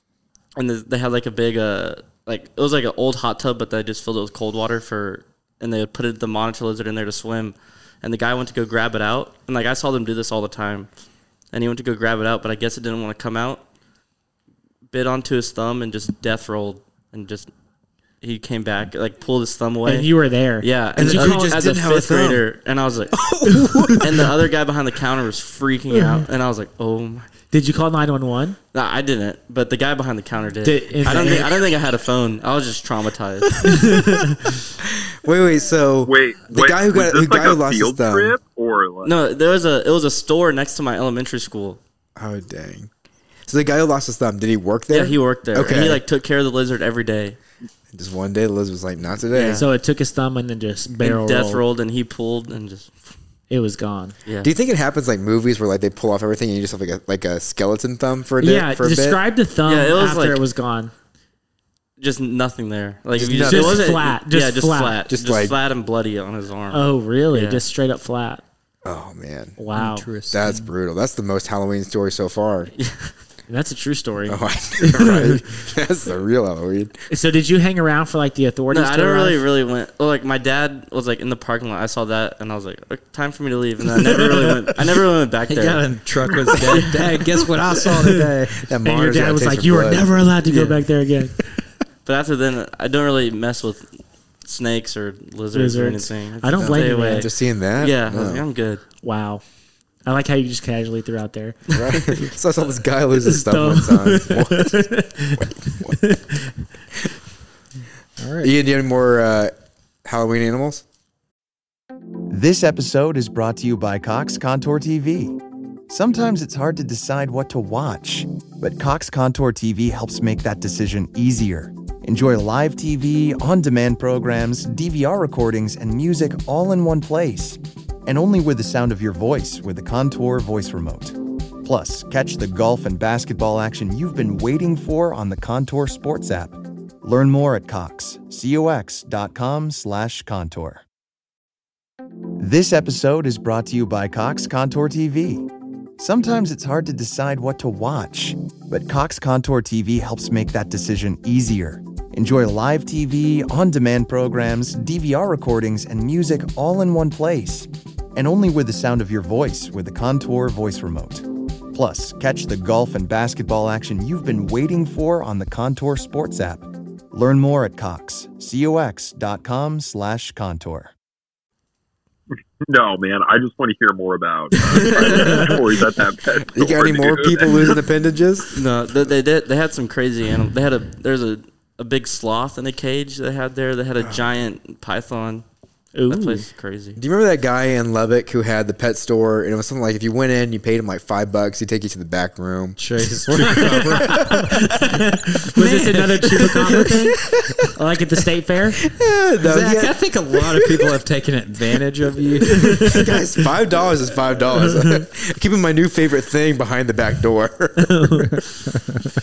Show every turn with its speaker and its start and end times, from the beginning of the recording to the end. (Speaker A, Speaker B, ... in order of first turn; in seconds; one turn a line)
Speaker A: 0.6-10.9
Speaker A: 11.5-13.6
Speaker A: 14.9-17.5
Speaker A: 18.2-23.2
Speaker B: 19.9-21.6
Speaker C: 21.0-22.4
Speaker C: 23.1-24.1
Speaker A: 24.0-27.3
Speaker B: 27.5-28.6
Speaker A: 28.7-34.0
Speaker B: 30.6-31.6
Speaker B: 33.6-34.4
Speaker C: 34.9-38.4
Speaker D: 36.0-39.2
Speaker A: 39.0-41.8
Speaker C: 42.2-42.9
Speaker C: 43.5-46.0
Speaker A: 44.9-47.4
Speaker C: 47.9-49.6
Speaker A: 49.3-49.7
Speaker B: 49.6-51.6
Speaker A: 51.0-53.0
Speaker B: 53.5-54.1
Speaker A: 54.3-54.5
Speaker C: 54.4-59.2
Speaker B: 58.4-60.9
Speaker A: 59.6-60.4
Speaker A: 62.0-67.6
Speaker C: 63.2-63.9
Speaker B: 63.5-65.0
Speaker C: 65.1-65.5
Speaker B: 66.7-68.4
Speaker C: 68.8-69.6
Speaker B: 69.6-70.1
Speaker E: 69.7-70.7
Speaker C: 70.3-72.7
Speaker A: 72.8-73.1
Speaker B: 73.5-75.4
Speaker C: 74.3-77.0
Speaker B: 77.1-79.4
Speaker A: 78.7-87.3
Speaker E: 85.5-88.7
Speaker C: 88.6-90.8
Speaker B: 88.8-91.4
Speaker A: 92.0-98.8
Speaker B: 95.5-97.3
Speaker C: 96.6-98.4
Speaker B: 99.0-99.4
Speaker B: 100.0-102.3
Speaker C: 101.7-106.1
Speaker B: 103.2-106.4
Speaker E: 108.2-108.5
Speaker C: 108.4-109.5
Speaker C: 110.0-110.8
Speaker F: 112.3-115.4
Speaker F: 115.9-140.8
Speaker F: 142.4-145.5
Speaker F: 146.0-170.9
Speaker D: 172.7-177.5
Speaker A: 174.9-175.5
Speaker C: 176.4-178.6
Speaker A: 178.5-185.4
Speaker C: 184.0-184.3
Speaker B: 185.9-186.4
Speaker A: 186.1-187.0
Speaker C: 187.0-194.6
Speaker E: 192.8-196.9
Speaker B: 193.5-197.2
Speaker C: 197.2-197.6
Speaker B: 197.8-198.8
Speaker C: 198.9-200.9
Speaker E: 199.4-203.2
Speaker C: 202.5-208.1
Speaker B: 207.8-208.5
Speaker E: 208.7-209.1